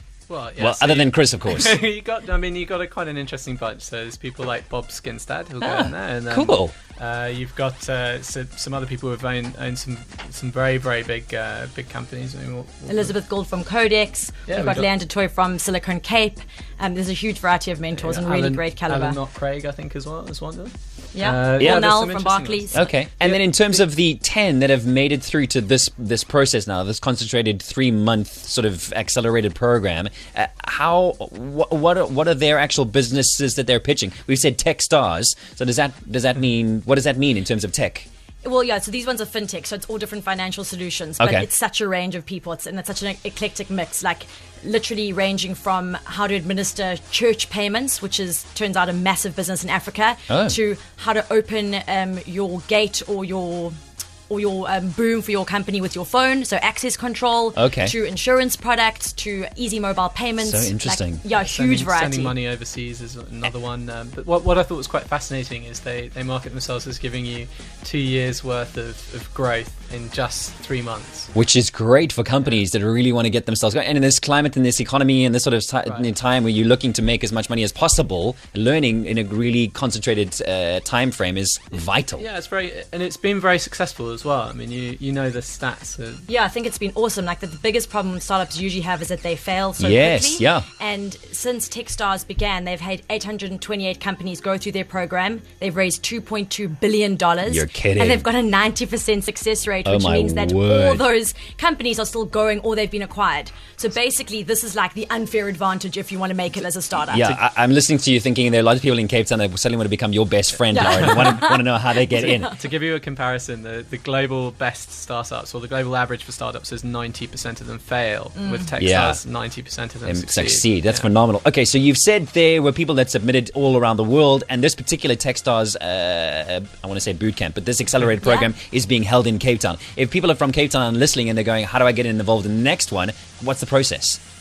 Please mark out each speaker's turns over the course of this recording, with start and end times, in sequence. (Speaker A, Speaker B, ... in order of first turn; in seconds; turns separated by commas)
Speaker A: 0.3-13.1, Speaker B: 0.6-1.8, Speaker B: 5.6-6.7, Speaker C: 12.9-19.2, Speaker A: 14.5-14.9, Speaker A: 17.9-23.4, Speaker C: 21.1-22.9, Speaker B: 21.6-21.9, Speaker B: 22.7-38.1, Speaker C: 38.4-53.7, Speaker B: 41.2-41.5, Speaker B: 50.3-50.5, Speaker C: 54.3-62.3, Speaker B: 57.5-57.9, Speaker B: 60.4-61.2, Speaker A: 61.3-71.3, Speaker B: 71.3-82.2, Speaker A: 82.2-86.2, Speaker C: 86.3-107.3, Speaker B: 89.8-90.7, Speaker B: 97.5-98.2, Speaker B: 99.8-101.0, Speaker B: 107.1-112.5, Speaker C: 110.7-112.5, Speaker A: 112.5-121.1, Speaker C: 118.3-118.7, Speaker B: 118.8-119.2, Speaker B: 120.0-134.2, Speaker C: 128.2-128.5